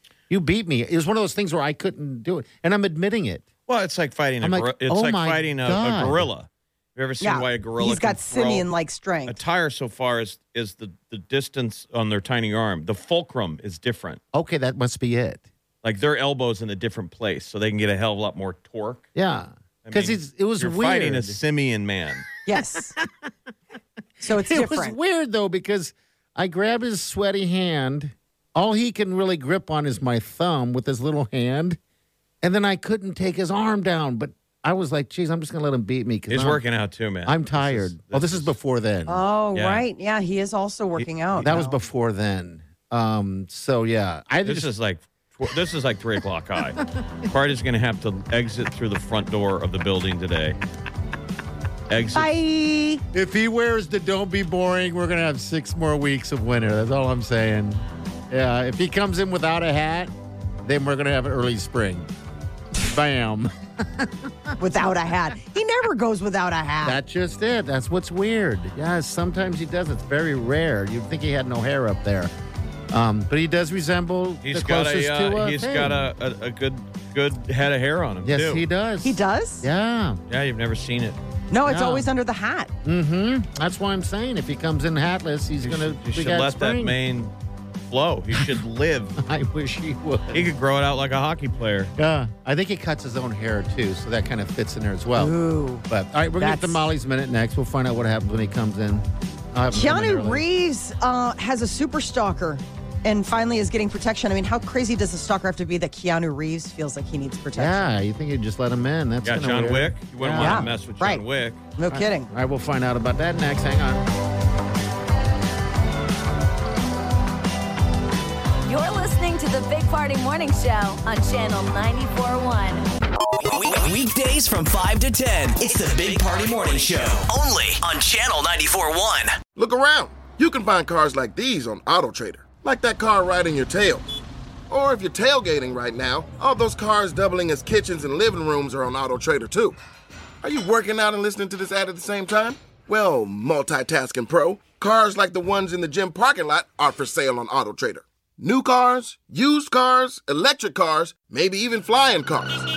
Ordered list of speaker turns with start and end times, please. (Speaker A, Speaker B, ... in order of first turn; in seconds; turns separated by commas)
Speaker A: 0.3-3.4, Speaker B: 3.7-8.7, Speaker A: 4.4-6.3, Speaker C: 7.2-9.4, Speaker B: 9.2-14.2, Speaker A: 14.3-15.4, Speaker B: 15.8-19.1, Speaker A: 19.1-21.4, Speaker B: 19.8-22.3, Speaker C: 22.4-22.9, Speaker A: 22.5-23.3, Speaker A: 24.2-31.8, Speaker C: 24.2-25.0, Speaker A: 32.4-36.6, Speaker B: 36.3-38.5, Speaker A: 37.2-39.2, Speaker C: 39.0-41.8, Speaker B: 39.5-39.8, Speaker B: 41.0-41.5, Speaker A: 41.4-44.7, Speaker B: 44.4-50.6, Speaker B: 51.9-52.3, Speaker C: 52.1-53.0, Speaker A: 53.1-60.1, Speaker A: 60.6-62.1, Speaker A: 62.8-64.5, Speaker C: 64.6-67.0, Speaker A: 66.8-72.3, Speaker A: 72.9-76.1, Speaker B: 74.4-78.6, Speaker A: 78.2-80.2, Speaker C: 79.0-79.7, Speaker B: 80.3-81.2, Speaker C: 81.5-82.7, Speaker A: 81.6-82.1, Speaker A: 82.8-87.0, Speaker B: 85.6-89.2, Speaker A: 89.2-90.5, Speaker B: 90.3-91.9, Speaker A: 92.0-95.3, Speaker C: 95.2-95.8, Speaker A: 95.9-100.4, Speaker C: 96.4-96.9, Speaker C: 99.7-107.9, Speaker A: 107.5-110.7, Speaker B: 109.2-111.6, Speaker C: 110.3-111.2, Speaker C: 111.8-112.3, Speaker A: 111.9-114.0, Speaker D: 118.7-122.8, Speaker E: 123.4-129.4, Speaker F: 129.6-134.0, Speaker F: 134.7-139.8, Speaker F: 140.4-152.5